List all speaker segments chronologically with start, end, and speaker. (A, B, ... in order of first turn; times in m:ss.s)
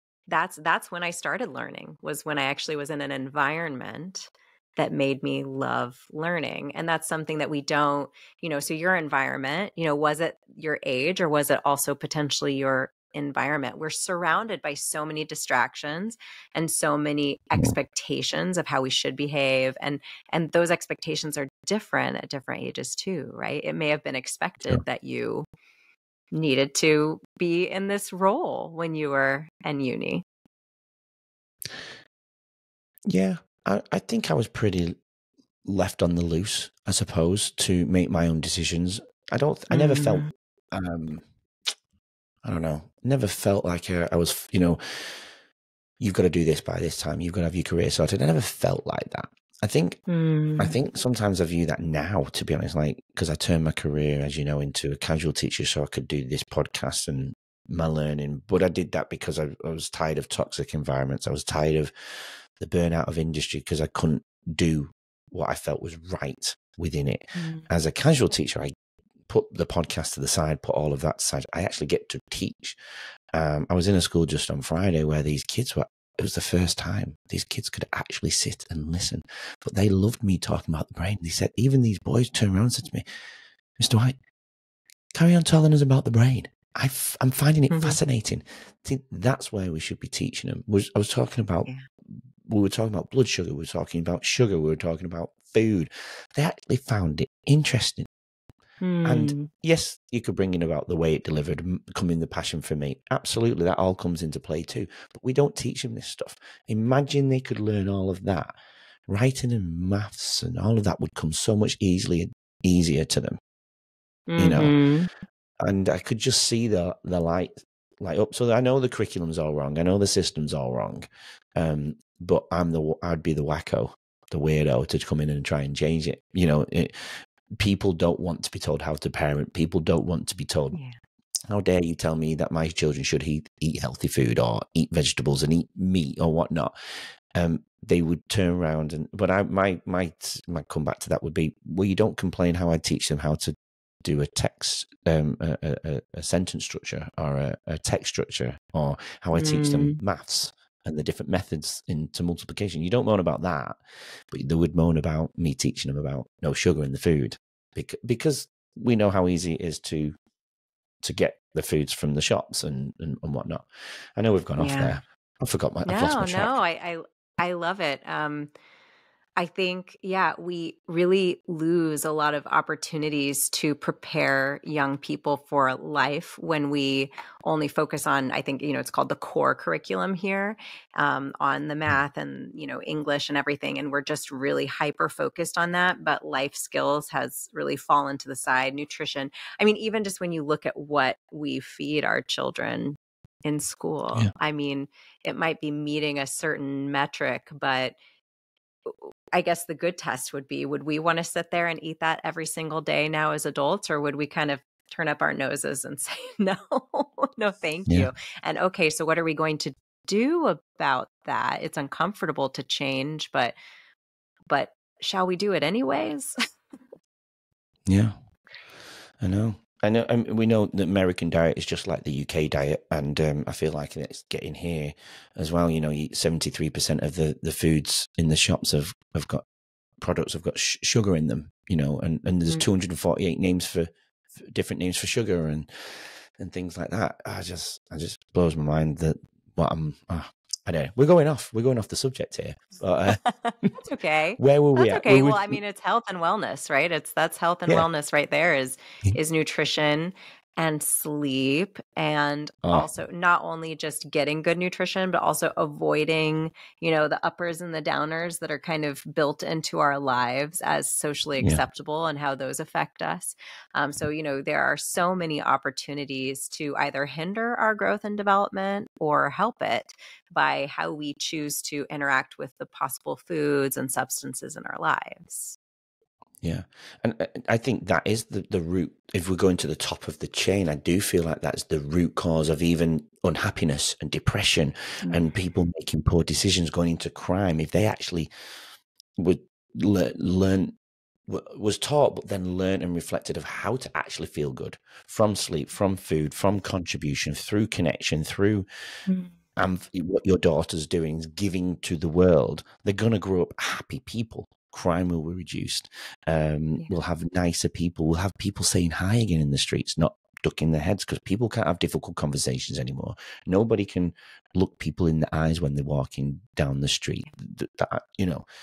0:00.3-0:25.5 A
0:26.3-0:30.2 A
0:33.1-0:35.0 B
0:35.6-0:41.3 B
0:39.7-0:40.3 A
0:42.4-0:45.3 B
0:46.0-0:50.0 B
0:50.1-0:50.8 A
0:50.6-1:08.7 B
1:07.4-1:07.6 A
1:09.3-1:12.8 B
1:13.3-1:23.1 B
1:23.8-1:24.2 B
1:25.2-1:38.1 B
1:27.7-1:28.0 A
1:38.8-1:39.5 A
1:39.0-1:48.6 B
1:49.1-1:53.4 B
1:54.3-1:55.1 A
1:54.4-1:54.8 B
1:55.6-2:10.8 B
2:11.5-2:16.8 B
2:17.3-2:40.2 B
2:29.3-2:30.0 A
2:41.0-2:46.6 B
2:44.6-2:45.0 A
2:45.9-2:48.5 A
2:49.4-3:18.0 A
3:18.9-3:33.6 A
3:34.5-3:36.3 A
3:37.9-3:38.2 B
3:39.2-3:49.4 B
3:50.0-4:03.7 B
4:03.2-4:35.6 A
4:04.4-4:05.6 B
4:36.4-4:48.3 B
4:49.2-4:50.8 B
4:51.3-4:58.7 B
4:59.6-5:18.4 B